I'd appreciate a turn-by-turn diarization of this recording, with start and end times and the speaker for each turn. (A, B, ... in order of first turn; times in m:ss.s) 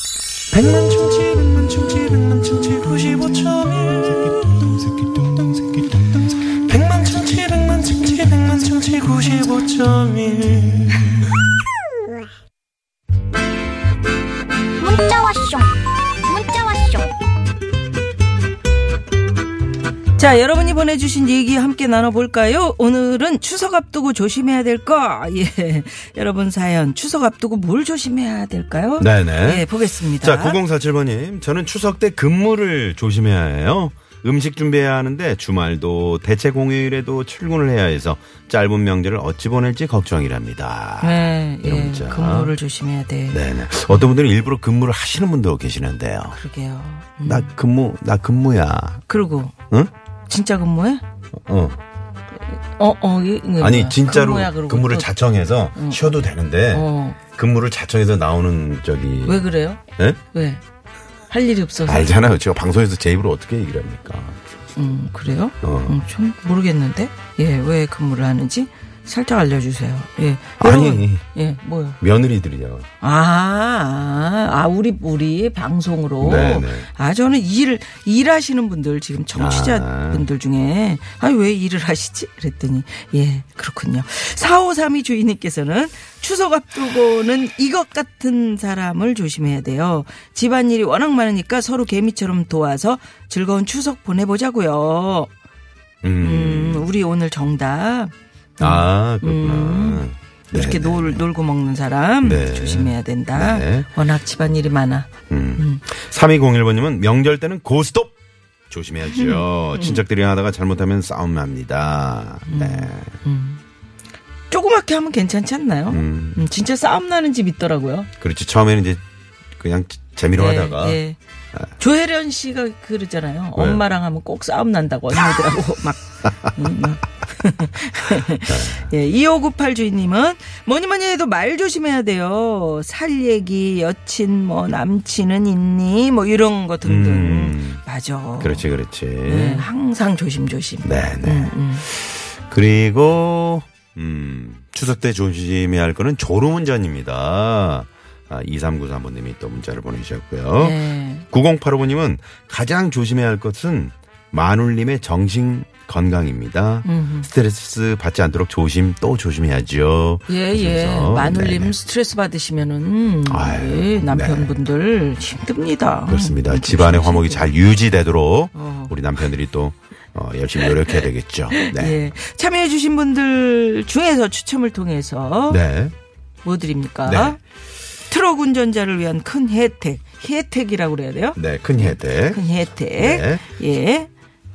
0:00.5-0:11.1 A
0:14.8-0:17.1 B
0:20.2-0:30.6 C
0:29.0-0:42.5 D
0:41.0-0:44.1 C
0:43.3-0:46.4 D
0:46.3-0:47.5 C
0:47.2-0:49.0 D
0:49.1-0:49.5 C
0:50.3-0:51.0 C
0:51.5-0:51.8 D
0:52.4-0:55.1 C
0:53.6-1:00.2 D
0:55.7-0:56.1 C
0:56.7-0:57.2 C
0:59.2-0:59.8 C
1:00.3-1:00.6 C
1:01.3-1:02.2 C
1:01.8-1:04.4 D
1:04.8-1:12.0 C
1:05.6-1:06.0 D
1:10.6-1:11.2 D
1:12.0-1:12.9 D
1:13.0-1:35.3 C
1:16.2-1:16.9 D
1:19.3-1:20.2 D
1:36.0-1:36.9 D
1:36.2-1:45.8 C
1:38.6-1:41.2 D
1:42.2-1:43.9 D
1:45.3-1:48.1 D
1:48.7-1:53.2 D
1:49.0-1:50.0 C
1:52.4-1:53.6 C
1:54.5-1:58.1 C
1:55.9-1:56.5 D
1:58.2-1:59.0 D
1:59.6-2:01.0 D
2:00.3-2:01.2 C
2:01.8-2:18.7 C
2:03.5-2:03.8 D
2:08.4-2:08.9 D
2:16.8-2:17.8 D
2:18.4-2:19.7 D
2:19.2-2:21.8 C
2:20.8-2:41.7 D
2:30.6-2:31.2 C
2:36.8-2:37.3 C
2:40.3-2:47.5 C
2:43.3-2:44.5 D
2:46.1-2:52.0 D
2:48.5-2:48.9 C
2:50.6-2:55.6 C
2:55.5-2:55.9 D
2:56.4-2:57.4 C
2:57.0-2:57.4 D
2:58.1-3:04.1 C
3:01.4-3:03.4 D